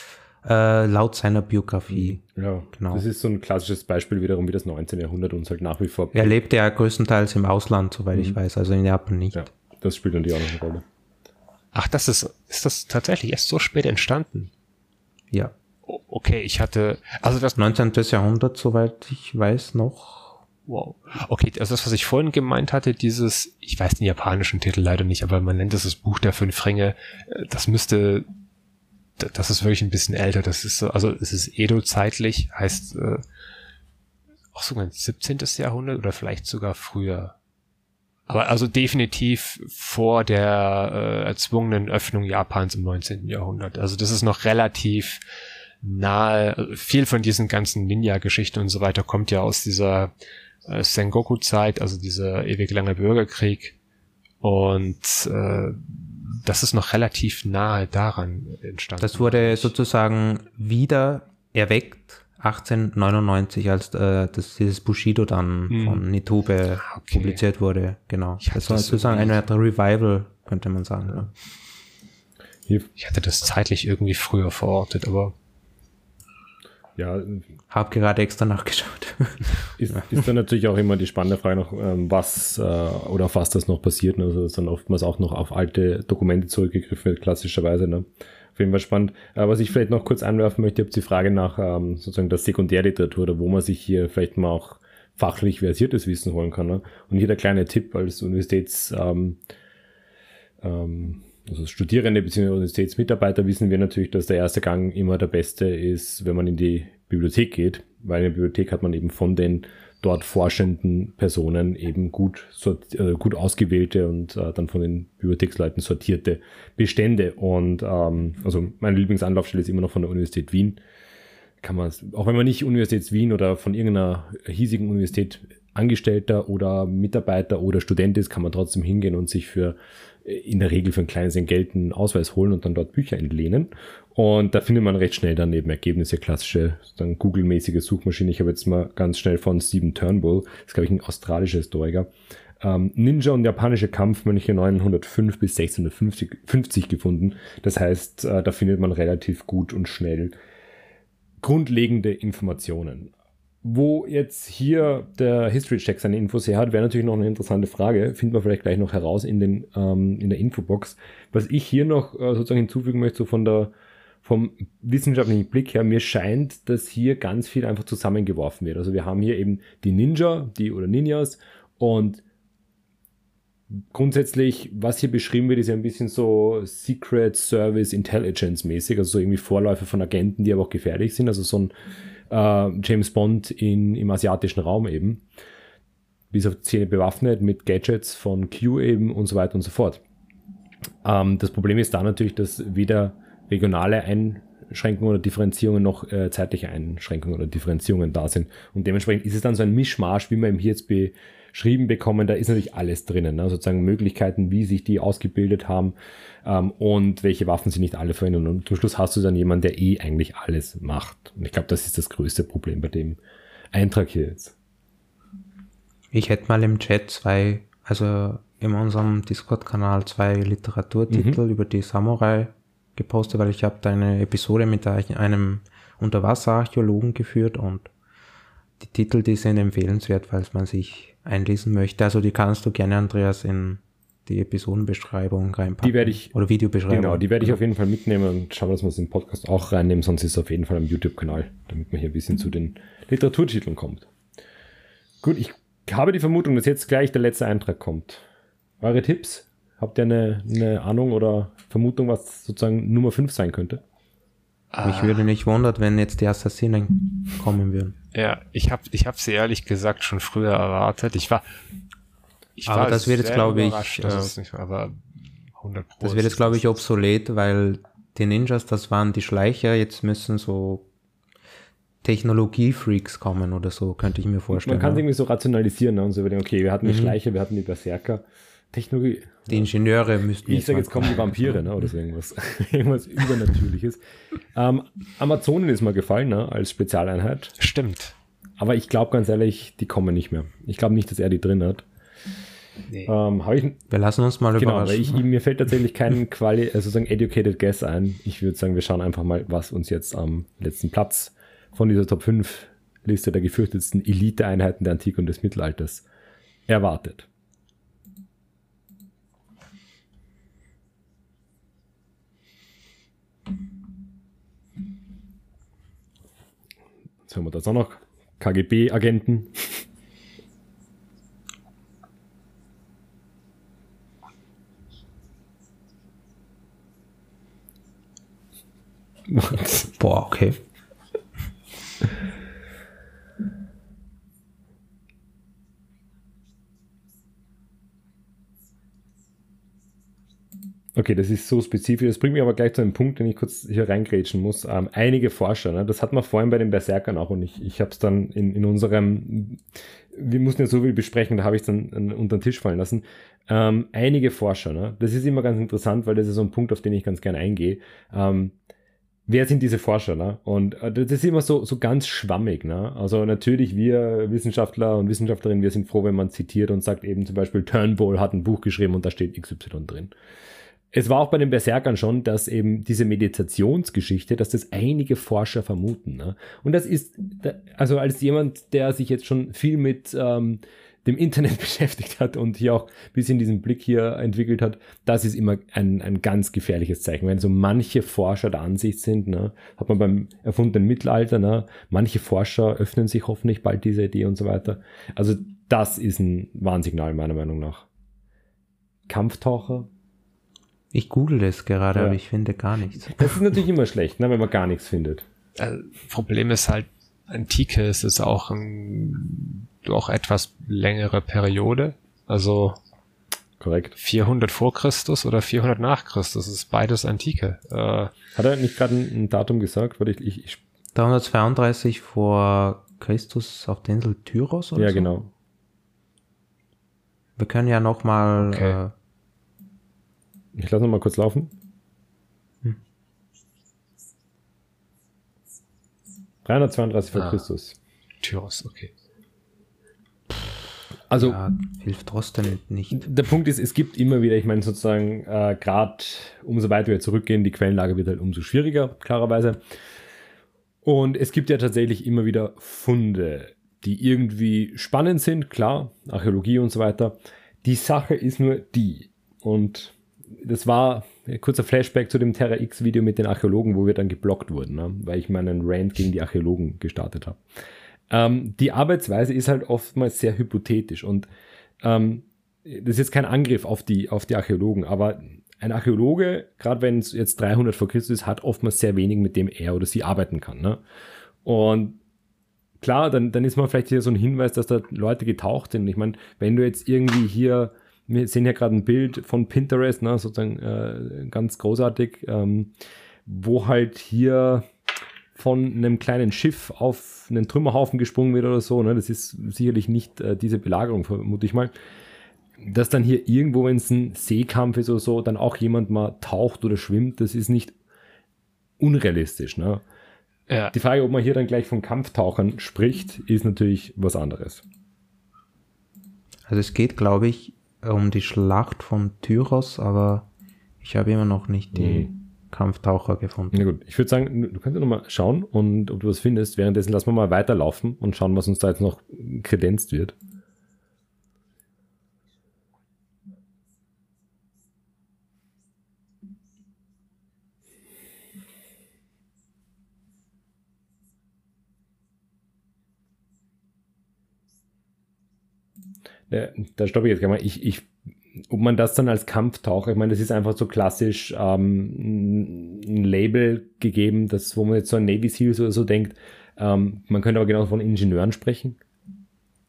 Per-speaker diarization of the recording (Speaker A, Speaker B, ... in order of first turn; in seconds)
Speaker A: 0.4-2.2, 2.7-3.0, 6.1-9.5, 17.6-20.4, 59.0-71.3, 77.7-80.1, 216.1-227.9, 228.8-237.6, 254.8-257.9, 262.7-264.3, 266.0-270.9, 272.0-275.0, 276.8-277.1, 279.5-281.6, 293.9-295.3, 329.9-330.6, 400.9-403.3, 420.9-425.1, 427.4-428.9, 441.1-443.1, 516.5-520.3, 520.8-523.6
Speaker B: 1.9-6.4, 9.3-10.8, 77.0-77.4, 79.8-99.4, 100.6-120.8, 121.6-142.1, 142.6-150.3, 151.4-153.1, 153.6-163.7, 164.2-172.2, 173.9-181.7, 182.3-185.2, 186.3-190.0, 191.0-213.2, 213.7-214.5, 221.1-221.4, 235.8-236.3, 236.9-244.1, 245.2-248.2, 248.8-253.8, 274.5-279.7, 280.4-284.0, 284.5-287.5, 288.6-291.8, 293.0-293.8, 294.6-306.0, 306.7-307.3, 317.2-319.9, 329.3-329.9, 340.9-358.5, 359.3-370.1, 370.9-397.9, 399.1-399.9, 403.1-405.2, 413.6-413.9, 418.3-420.6, 424.8-425.3, 430.5-431.5, 436.4-437.8, 441.1-441.4, 442.9-449.6, 450.8-467.4, 468.1-471.3, 471.8-480.8, 481.4-482.0, 482.8-492.7, 493.2-494.7, 495.3-501.7, 502.6-507.7, 508.8-509.8, 510.7-514.6, 521.7-522.1, 523.5-530.1, 546.3-558.8
Speaker C: 11.7-14.5, 15.8-17.6, 20.6-28.3, 29.2-33.2, 34.5-37.3, 38.3-45.2, 45.8-50.1, 50.6-53.7, 54.4-59.7, 65.7-66.0, 66.8-67.4, 68.4-69.4, 73.0-75.3, 254.7-255.2, 258.1-261.4, 262.6-265.0, 265.6-266.8, 287.6-288.1, 405.6-412.8, 414.0-418.1, 428.4-428.8, 438.2-438.9, 510.5-510.7